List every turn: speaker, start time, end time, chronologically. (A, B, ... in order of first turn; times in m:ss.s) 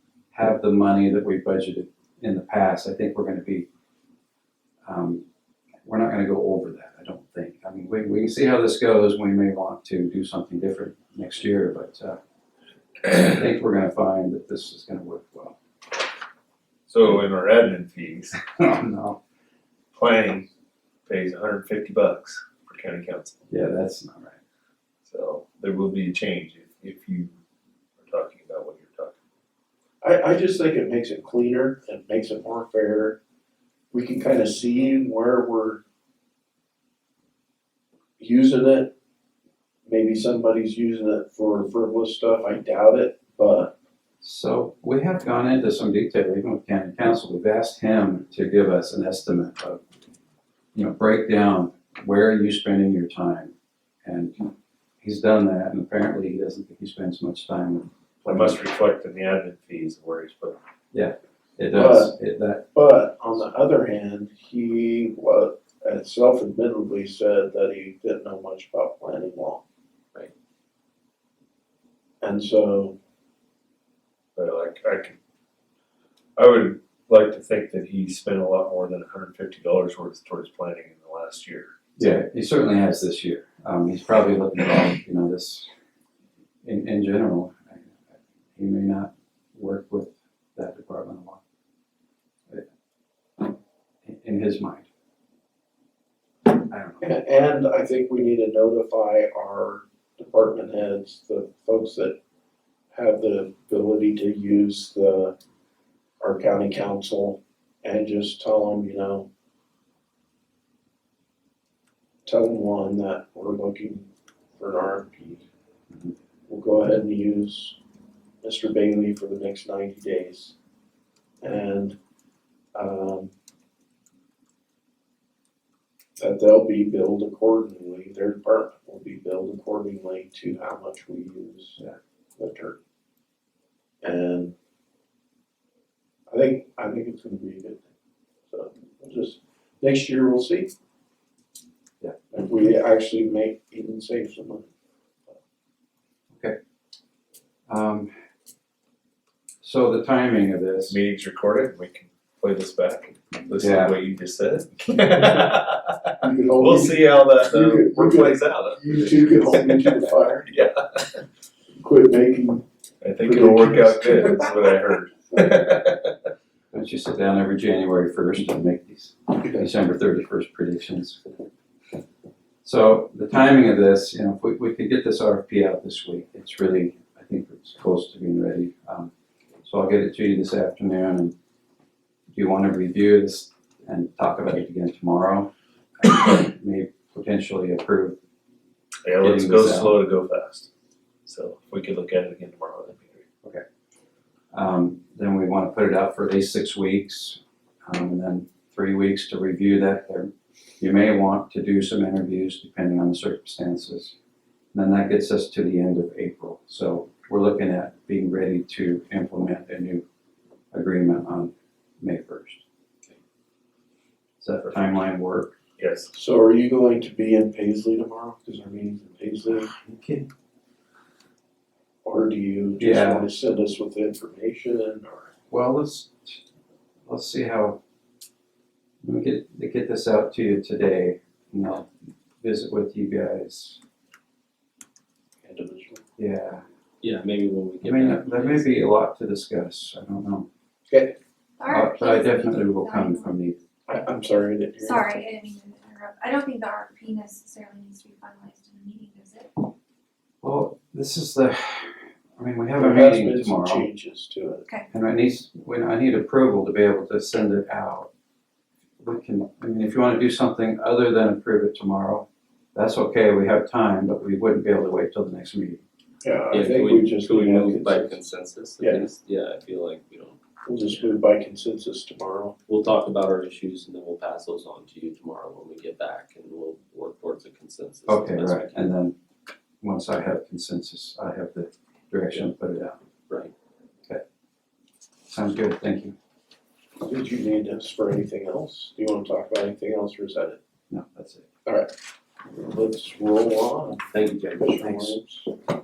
0:00.3-0:03.7 A
0:04.8-0:05.2 A
0:05.8-0:12.2 A
0:13.0-0:15.6 A
0:16.9-0:18.4 B
0:18.6-0:19.2 A
0:19.9-0:20.5 B
0:21.1-0:23.4 B
0:23.5-0:24.4 A
0:25.0-0:27.3 B
0:28.0-0:29.2 B
0:30.0-0:33.2 C
0:33.9-0:35.8 C
0:38.2-0:38.9 C
0:39.8-0:43.7 C
0:44.2-0:49.8 A
0:50.7-0:53.5 A
0:54.0-0:54.5 A
0:55.0-0:58.6 A
0:58.2-1:00.6 B
1:00.9-1:02.6 A
1:01.7-1:02.2 C
1:02.7-1:09.6 C
1:12.2-1:13.0 C
1:14.4-1:15.2 B
1:16.4-1:21.7 B
1:22.0-1:25.7 A
1:26.6-1:28.0 A
1:28.6-1:31.4 A
1:34.0-1:34.9 A
1:36.5-1:37.1 A
1:37.0-1:42.2 C
1:42.9-1:45.4 C
1:46.2-1:49.3 C
1:52.3-1:55.5 C
1:56.5-1:57.8 C
1:58.4-2:00.6 C
2:01.4-2:02.0 C
2:02.7-2:03.3 C
2:06.2-2:11.8 C
2:12.4-2:12.8 C
2:14.0-2:14.5 C
2:16.3-2:17.9 C
2:18.5-2:20.7 C
2:22.3-2:24.7 C
2:27.7-2:28.1 A
2:29.6-2:31.0 A
2:30.9-2:41.2 B
2:33.6-2:34.0 A
2:36.2-2:40.5 C
2:41.8-2:42.6 C
2:43.0-2:46.3 B
2:43.2-2:44.4 C
2:46.7-2:51.2 A
2:52.6-2:59.1 A
2:59.6-3:01.3 A
3:02.3-3:08.2 A
3:09.0-3:10.7 B
3:09.2-3:10.0 A
3:11.2-3:13.2 B
3:14.5-3:24.2 A
3:24.7-3:30.0 A
3:30.7-3:32.6 A
3:34.4-3:35.5 A
3:35.8-3:36.1 B
3:36.1-3:39.7 C
3:39.8-3:40.2 A
3:42.0-3:45.3 C
3:42.8-3:43.3 A
3:45.5-3:46.4 A
3:47.1-3:47.8 A
3:49.0-3:51.9 A
3:52.4-3:53.8 A
3:55.4-3:56.0 C
3:56.2-3:56.6 A
3:57.0-3:58.7 D
3:57.8-4:00.5 A
4:00.9-4:01.2 C
4:01.6-4:03.4 E
4:01.7-4:03.6 A
4:03.9-4:05.2 C
4:04.8-4:09.6 E
4:10.4-4:13.9 A
4:12.8-4:14.7 C
4:14.9-4:18.1 A
4:19.0-4:25.8 A
4:26.2-4:28.2 C
4:26.5-4:30.4 D
4:28.8-4:29.1 C
4:30.6-4:32.6 C
4:32.7-4:38.9 D
4:38.1-4:39.1 A
4:39.8-4:43.0 A
4:45.3-4:46.1 A
4:47.0-4:50.6 C
4:50.9-4:51.5 A
4:51.7-4:51.9 C
4:52.5-4:55.5 C
4:54.1-4:55.2 D